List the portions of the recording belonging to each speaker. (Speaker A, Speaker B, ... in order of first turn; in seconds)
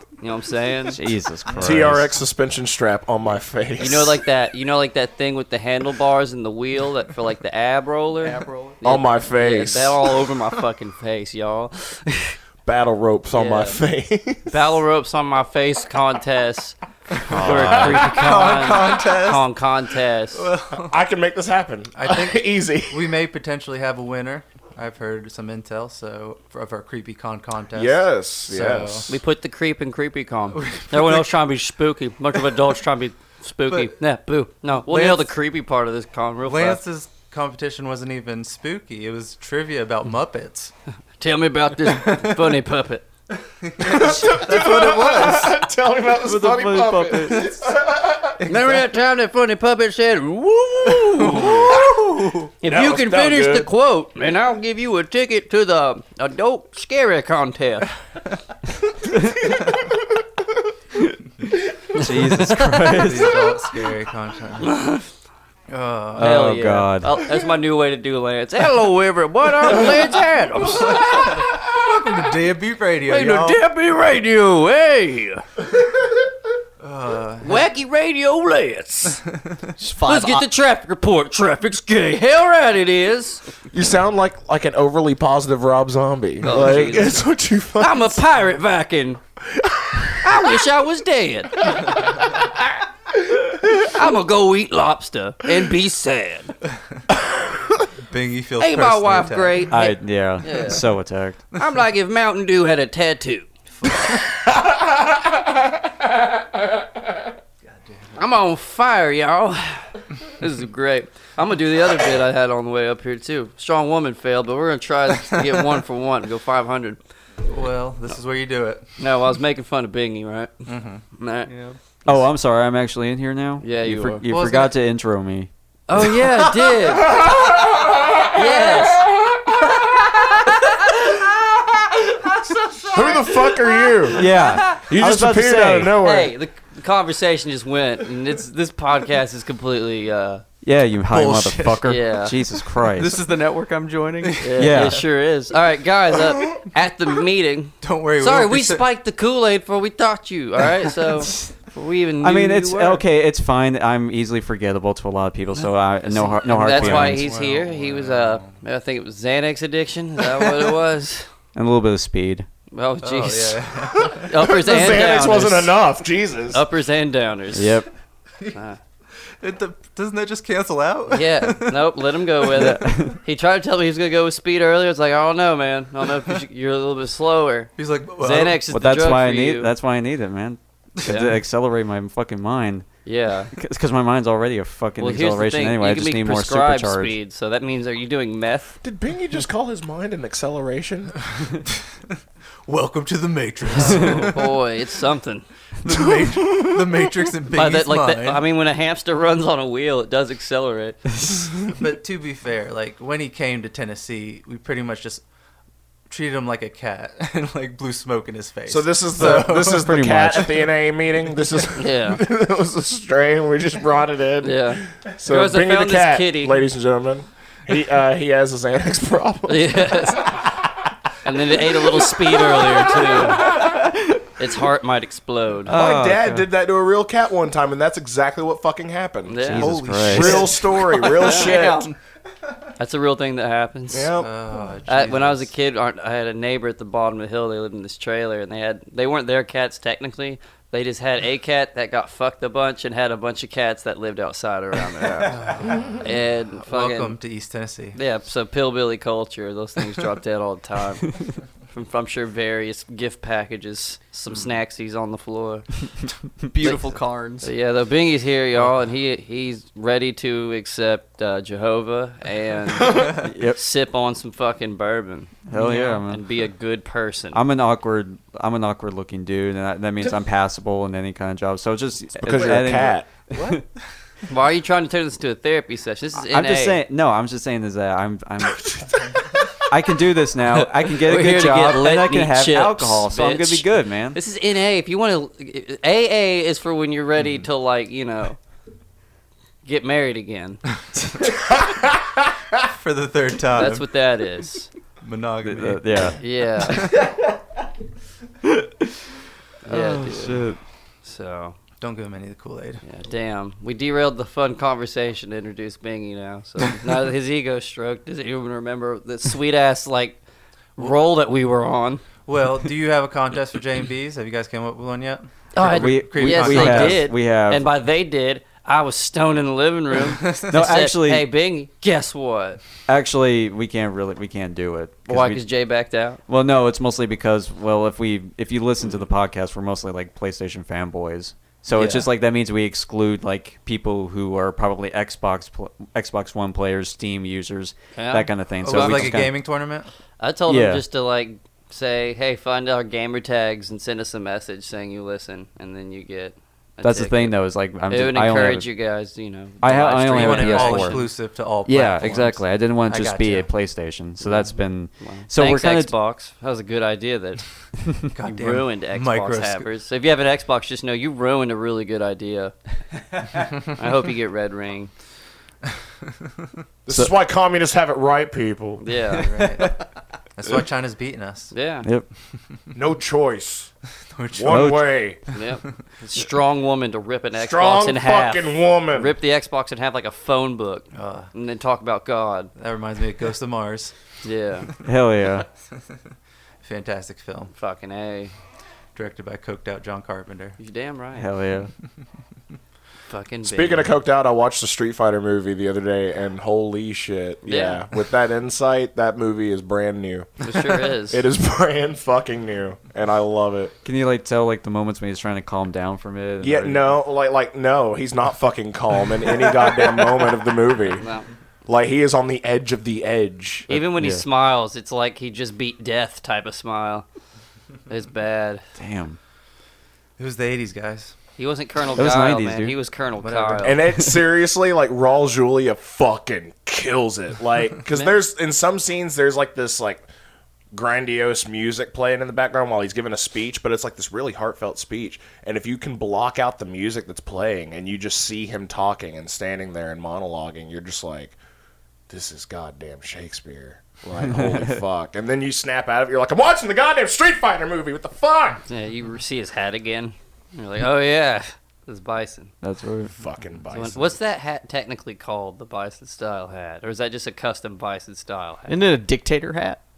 Speaker A: 0.2-1.0, 3.8-12.3, 13.3-13.8, 14.5-16.8, 17.3-20.4, 29.1-36.8, 41.2-43.1, 46.3-47.4, 48.5-51.8, 52.6-57.9, 61.9-62.6, 64.6-65.1, 66.2-71.5, 73.1-75.4, 77.4-79.2, 80.1-83.4, 86.4-87.2, 87.8-89.2, 90.2-92.0, 93.6-96.5, 98.6-100.8, 101.5-103.5, 108.2-117.0, 119.0-121.5, 123.6-124.2, 125.9-127.5, 128.2-129.1, 130.5-131.1, 132.8-133.9, 136.0-140.4, 141.8-142.4, 144.4-153.0, 156.6-161.3, 162.7-165.8, 166.5-167.8, 168.5-168.8, 171.1-179.7, 181.1-181.3, 183.1-183.5, 185.0-188.8, 193.7-195.4, 197.5-201.0, 211.8-212.2, 214.4-216.7, 219.5-220.4, 221.2-223.6, 224.4-225.8, 229.3-229.8, 231.2-231.5, 232.8-234.2, 234.9-247.2, 247.9-255.9, 256.6-265.4, 266.1-267.4, 274.3-276.8, 280.6-288.4, 289.6-290.6, 293.5-294.7, 296.2-296.9, 299.6-300.4, 301.0-301.6, 302.8-310.2, 310.8-312.0, 315.5-322.6, 325.1-326.2, 331.7-332.1, 337.9-339.2, 340.2-347.4, 347.9-351.1, 354.2-362.6, 363.7-364.9, 368.8-369.4, 371.5-371.9, 375.3-382.5, 384.2-384.7, 387.5-388.3, 390.6-391.3, 393.1-393.9, 397.5-397.8, 400.4-401.2, 411.0-411.3, 413.7-417.1, 417.9-418.6, 421.4-423.8, 427.9-428.2, 448.7-452.5, 453.7-458.8
Speaker B: 0.9-2.1, 17.3-18.2, 62.0-63.5, 66.2-67.2, 99.7-101.4, 122.1-125.5, 134.1-135.9, 140.6-143.2, 144.6-145.0, 152.2-157.3, 161.6-162.5, 167.6-167.9, 178.7-187.2, 209.2-210.6, 225.7-226.4, 229.4-230.6, 263.2-263.6, 265.5-266.2, 267.3-273.6, 276.2-278.8, 279.6-284.2, 295.4-296.2, 299.7-300.6, 315.6-317.6, 320.5-321.3, 322.9-325.5, 326.3-339.4, 340.5-340.8, 346.8-348.7, 349.6-355.9, 374.5-374.9, 384.8-385.5, 391.2-391.7, 403.8-407.0, 413.7-414.2, 418.8-419.2, 421.9-422.8, 452.6-453.1
Speaker C: 1.6-4.2, 8.8-10.0, 12.7-14.5, 20.7-23.1, 27.7-29.2, 43.8-48.4, 52.6-53.7, 83.7-88.2, 89.5-90.2, 127.1-129.6, 132.9-136.3, 163.9-166.6, 188.8-191.2, 208.7-220.9, 221.5-223.9, 225.7-231.9, 233.9-234.3, 272.2-273.1, 366.9-368.8, 372.7-373.7, 374.3-375.2, 377.4-379.1, 393.4-403.7, 406.4-411.1, 411.7-413.7, 423.6-430.1, 430.7-441.4, 442.1-448.6, 453.1-454.2
Speaker D: 8.2-8.8, 79.8-80.5, 121.5-121.8, 143.0-144.4, 230.9-231.9, 256.5-257.5, 458.7-459.8
Speaker E: 17.5-19.6, 20.3-21.0, 21.9-29.1, 30.5-31.3, 33.7-33.9, 34.9-35.4, 36.4-40.7, 42.1-42.3, 43.6-45.7, 48.4-48.9, 51.1-52.5, 63.0-64.8, 65.7-66.4, 70.8-73.6, 76.8-77.7, 98.1-99.7, 103.8-104.2, 107.7-108.2, 117.5-118.9, 120.7-121.0, 124.3-124.7, 141.1-142.1, 144.2-145.0, 147.8-148.9, 155.6-158.6, 160.4-160.7, 163.0-165.4, 169.4-171.9, 177.8-178.7, 192.7-194.6, 195.8-198.4, 201.6-205.2, 206.1-210.4, 229.6-231.2, 234.2-235.5, 245.1-248.0, 265.5-266.0, 292.6-293.9, 295.0-297.2, 301.8-302.8, 312.3-317.1, 338.6-339.9, 350.0-353.5, 358.1-359.7, 369.2-371.5, 374.1-375.4, 380.9-381.3, 382.6-383.9, 386.6-387.5, 388.9-390.6, 420.2-421.1, 423.2-423.9